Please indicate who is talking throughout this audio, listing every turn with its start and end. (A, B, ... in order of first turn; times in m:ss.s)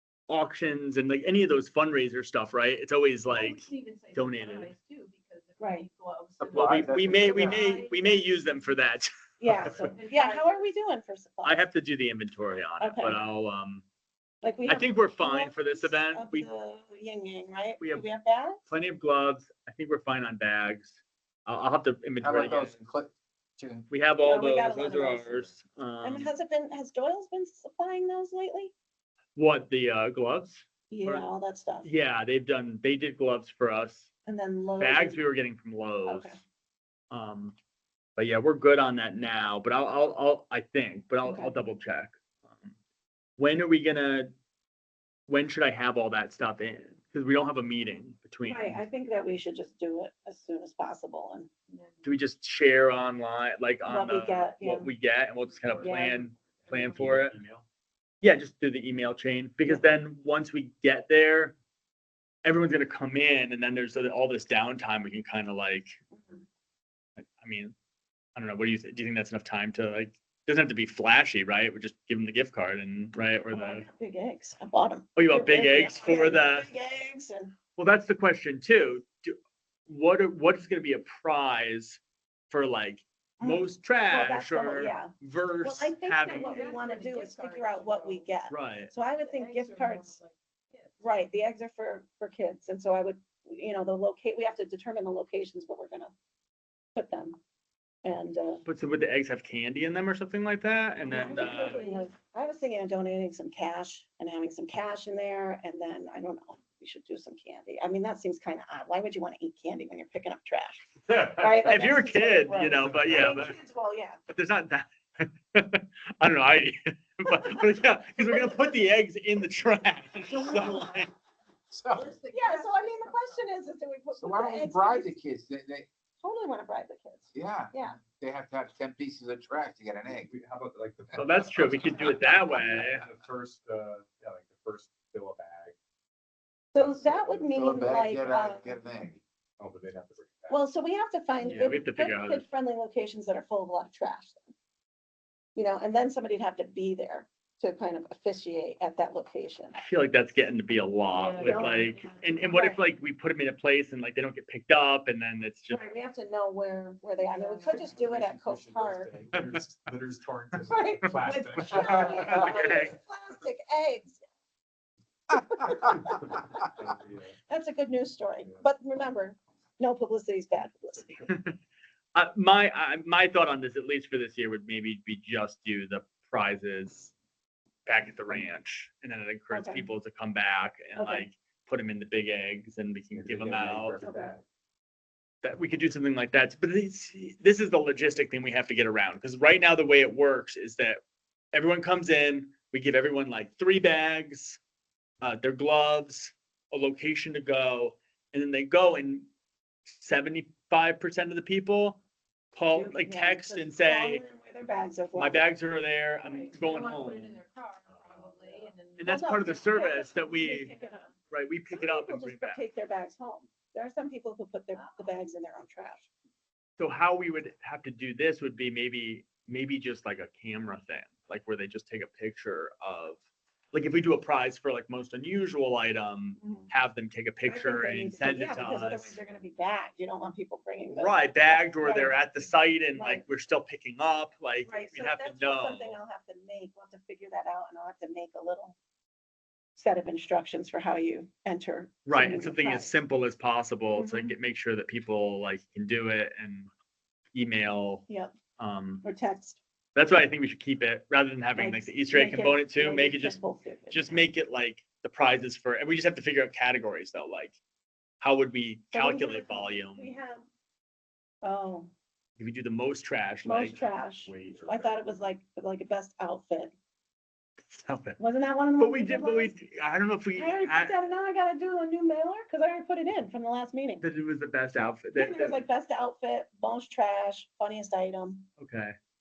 0:00.3-0:04.7 A
0:03.3-0:08.7 B
0:05.6-0:05.9 C
0:06.4-0:07.8 D
0:06.5-0:09.8 A
0:09.4-0:11.6 C
0:09.8-0:10.6 B
0:11.4-0:13.8 A
0:12.8-0:13.2 C
0:14.4-0:18.6 C
0:14.7-0:16.5 A
0:17.8-0:18.1 A
0:18.7-0:21.0 A
0:21.5-0:22.7 A
0:22.2-0:23.9 D
0:23.9-0:26.3 A
0:24.2-0:25.5 C
0:26.0-0:28.7 C
0:29.4-0:31.3 A
0:30.9-0:31.9 C
0:31.8-0:34.1 A
0:34.3-0:35.2 C
0:34.8-0:36.4 A
0:36.1-0:36.4 C
0:37.1-0:37.6 A
0:38.2-0:42.7 A
0:41.2-0:41.6 C
0:43.4-0:44.3 A
0:45.3-0:48.8 A
0:48.4-0:51.5 C
0:51.7-0:52.1 B
0:52.0-0:57.4 A
0:53.9-0:54.9 C
0:55.7-0:57.6 E
0:55.8-0:57.1 B
0:55.8-0:56.2 C
0:58.2-1:01.6 A
1:02.4-1:06.0 A
1:06.1-1:06.4 C
1:07.4-1:07.8 A
1:08.4-1:13.9 A
1:13.5-1:17.5 C
1:15.2-1:16.7 A
1:17.8-1:19.4 A
1:19.9-1:26.7 A
1:23.4-1:30.2 C
1:26.2-1:28.3 B
1:28.5-1:28.9 A
1:29.2-1:31.0 B
1:31.0-1:36.1 C
1:37.0-1:37.4 C
1:38.0-1:38.6 C
1:38.6-1:41.8 A
1:41.1-1:54.2 C
1:41.1-1:42.1 B
1:51.1-1:51.6 E
1:51.2-1:53.5 A
1:52.8-1:53.4 E
1:54.3-2:01.1 A
1:57.3-1:57.5 C
2:01.7-2:02.1 D
2:01.9-2:03.4 B
2:02.3-2:05.2 C
2:04.2-2:05.9 D
2:06.2-2:08.0 C
2:07.3-2:10.3 D
2:10.0-2:15.8 E
2:11.1-2:13.0 A
2:16.7-2:18.7 C
2:16.8-2:18.1 E
2:17.5-2:19.2 D
2:19.6-2:20.6 E
2:20.5-2:24.5 C
2:21.5-2:22.4 A
2:25.6-2:29.8 C
2:29.8-2:35.8 A
2:31.1-2:32.6 B
2:31.4-2:31.8 C
2:32.5-2:32.8 C
2:35.7-2:39.1 C
2:37.4-2:37.7 B
2:37.7-2:42.6 E
2:40.7-2:44.2 C
2:42.3-2:43.0 A
2:45.3-2:46.4 C
2:46.1-2:47.3 E
2:47.5-2:51.2 C
2:51.3-2:51.6 A
2:52.2-2:57.1 A
2:57.9-3:04.0 A
2:59.5-2:59.8 C
3:01.0-3:01.3 C
3:03.1-3:04.4 E
3:05.4-3:11.0 A
3:11.5-3:14.6 A
3:15.2-3:19.3 A
3:20.0-3:22.0 A
3:22.6-3:24.2 A
3:22.7-3:25.5 C
3:25.2-3:27.4 A
3:26.3-3:31.1 B
3:27.9-3:28.7 E
3:29.0-3:30.7 A
3:29.0-3:31.1 C
3:31.3-3:32.6 A
3:31.7-3:36.1 C
3:36.8-3:43.2 A
3:43.7-3:49.1 A
3:46.4-3:46.7 C
3:47.4-3:53.2 C
3:50.9-3:56.0 A
3:54.6-3:58.8 C
3:59.8-4:02.9 C
4:02.1-4:06.7 A
4:04.0-4:04.3 C
4:07.3-4:08.1 A
4:08.6-4:09.0 A
4:09.0-4:09.6 C
4:10.0-4:13.4 A
4:11.6-4:14.2 C
4:13.9-4:17.6 A
4:18.2-4:20.1 A
4:18.9-4:20.4 C
4:21.4-4:21.9 C
4:22.4-4:23.8 A
4:23.4-4:26.7 C
4:24.3-4:25.1 E
4:27.7-4:28.2 A
4:28.2-4:29.6 C
4:28.8-4:31.0 A
4:30.4-4:34.0 C
4:34.0-4:35.6 A
4:35.2-4:38.5 C
4:38.6-4:38.9 A